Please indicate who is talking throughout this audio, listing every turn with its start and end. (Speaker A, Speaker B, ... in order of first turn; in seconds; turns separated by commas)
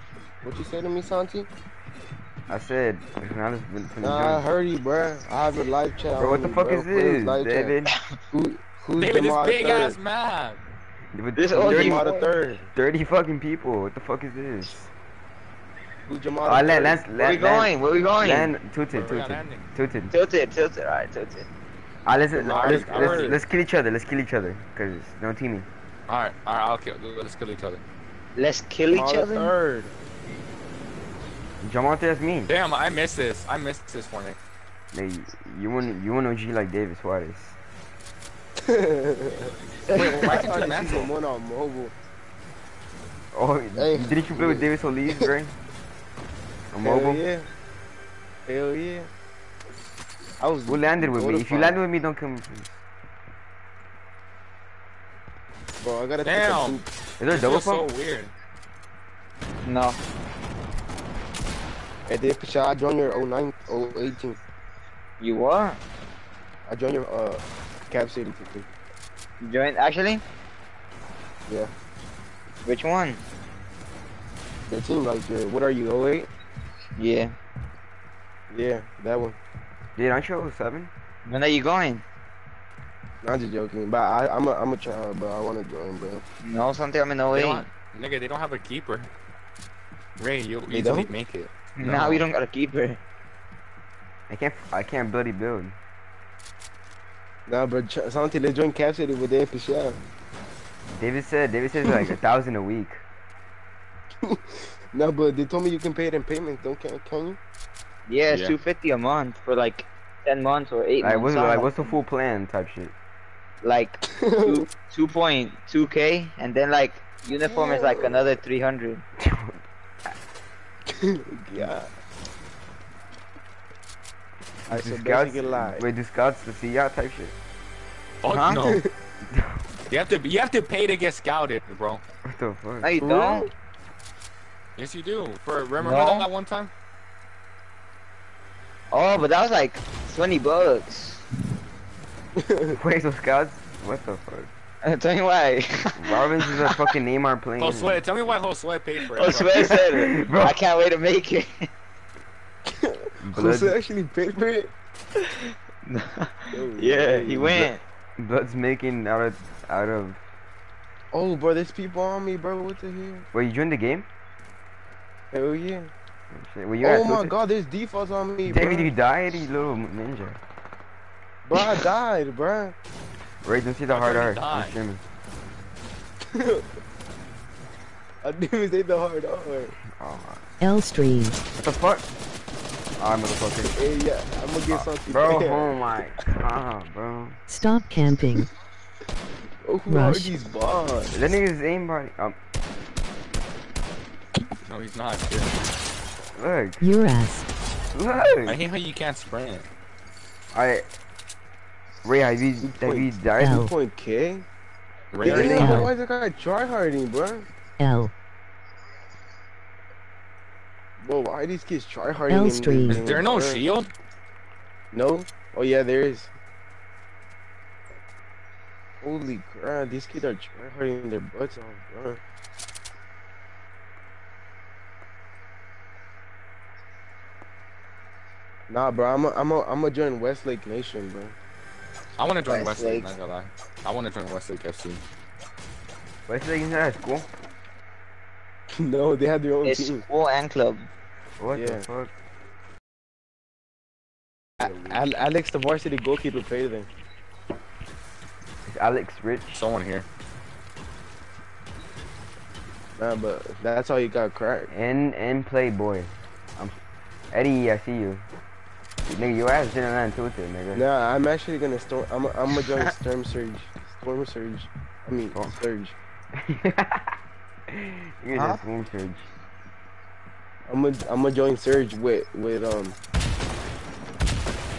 Speaker A: 0.4-1.5, Speaker B: 2.5-4.4, Speaker A: 4.0-7.8, Speaker B: 6.2-7.9, Speaker A: 8.3-10.0, Speaker C: 9.0-10.6, Speaker B: 11.1-12.2, Speaker D: 11.4-12.2, Speaker A: 11.5-12.7, Speaker B: 12.7-14.9, Speaker A: 16.1-17.1, Speaker B: 16.4-20.1, Speaker D: 17.1-18.5, Speaker C: 18.9-19.6, Speaker D: 20.1-21.5, Speaker B: 22.1-25.7, Speaker A: 22.4-23.4, Speaker C: 22.5-23.4, Speaker C: 26.1-27.8, Speaker D: 28.4-29.5, Speaker A: 28.9-29.9, Speaker B: 31.6-32.5, Speaker C: 32.5-34.4, Speaker B: 34.9-37.6, Speaker A: 38.6-41.9, Speaker C: 39.9-41.1, Speaker B: 43.3-45.5, Speaker A: 43.8-44.7, Speaker B: 46.7-47.2, Speaker A: 46.8-47.5, Speaker A: 48.5-49.1, Speaker A: 50.4-51.8, Speaker B: 50.7-52.8, Speaker A: 55.8-56.9, Speaker C: 56.2-58.3, Speaker B: 57.2-57.9, Speaker D: 59.6-60.0, Speaker A: 62.1-64.4, Speaker D: 65.2-65.8, Speaker A: 66.7-68.7, Speaker D: 69.4-70.2, Speaker D: 72.7-73.2, Speaker A: 74.7-76.3, Speaker D: 77.0-77.3, Speaker A: 78.5-79.4, Speaker B: 80.0-80.9, Speaker D: 81.2-82.0, Speaker A: 83.2-86.2, Speaker D: 86.4-87.7, Speaker C: 87.3-89.1, Speaker C: 90.2-92.2, Speaker A: 90.7-91.1, Speaker D: 91.8-93.0, Speaker B: 94.3-95.8, Speaker A: 97.5-100.0, Speaker B: 101.0-103.0, Speaker A: 104.2-107.4, Speaker D: 108.1-111.9, Speaker C: 108.3-108.5, Speaker B: 111.0-112.9, Speaker D: 113.6-119.0, Speaker A: 114.1-114.7, Speaker A: 117.4-118.4, Speaker B: 119.2-119.6, Speaker A: 120.9-121.9, Speaker A: 124.7-125.8, Speaker B: 124.7-127.3, Speaker C: 128.2-128.8, Speaker D: 128.3-128.8, Speaker B: 129.2-129.6, Speaker C: 129.9-132.0, Speaker B: 132.2-133.0, Speaker D: 132.8-133.5, Speaker A: 133.0-133.5, Speaker C: 134.8-136.7, Speaker D: 135.8-136.3, Speaker D: 138.9-141.2, Speaker A: 142.4-142.8, Speaker B: 142.7-144.5, Speaker D: 144.8-146.8, Speaker B: 146.0-148.0, Speaker C: 147.6-150.2, Speaker D: 149.1-151.7, Speaker B: 149.9-150.6, Speaker A: 152.7-154.7, Speaker B: 153.2-153.8, Speaker D: 155.2-157.8, Speaker A: 156.5-157.6, Speaker B: 157.5-160.2, Speaker A: 161.1-163.3, Speaker B: 163.3-164.1, Speaker A: 165.3-165.9, Speaker B: 166.3-167.3, Speaker A: 166.8-168.9, Speaker B: 168.5-170.4, Speaker A: 171.4-172.8, Speaker B: 173.4-175.0, Speaker C: 173.9-174.8, Speaker A: 176.3-176.7, Speaker A: 178.2-179.8, Speaker B: 179.9-180.4, Speaker E: 180.6-181.4, Speaker B: 181.5-182.1, Speaker B: 183.0-183.7, Speaker A: 183.6-185.7, Speaker B: 185.1-187.4, Speaker E: 187.5-188.5, Speaker A: 189.6-191.3, Speaker E: 189.9-190.3, Speaker B: 191.1-192.4, Speaker C: 194.7-195.5, Speaker B: 196.4-196.8, Speaker E: 196.8-197.5, Speaker B: 197.9-198.6, Speaker C: 198.4-199.7, Speaker B: 200.5-200.8, Speaker B: 202.0-203.7, Speaker A: 202.6-204.4, Speaker E: 203.4-203.7, Speaker C: 205.1-205.9, Speaker A: 205.2-207.5, Speaker E: 205.3-205.9, Speaker E: 207.8-208.1, Speaker A: 211.0-213.6, Speaker E: 212.3-213.1, Speaker C: 212.9-213.9, Speaker A: 214.9-216.3, Speaker A: 219.0-222.2, Speaker A: 228.7-231.4, Speaker C: 232.2-235.0, Speaker D: 232.5-233.1, Speaker B: 236.3-237.3, Speaker A: 238.7-240.0, Speaker D: 239.6-240.9, Speaker B: 241.4-242.1, Speaker A: 241.6-241.8, Speaker A: 244.6-246.9, Speaker B: 244.6-245.0, Speaker B: 248.7-249.6, Speaker C: 249.5-250.1, Speaker A: 253.0-254.7, Speaker B: 254.7-256.8, Speaker B: 257.3-258.2, Speaker B: 259.1-260.8, Speaker A: 260.7-266.0, Speaker B: 265.4-265.6, Speaker B: 266.3-267.2, Speaker B: 267.7-269.3, Speaker D: 268.3-268.6, Speaker A: 270.7-273.0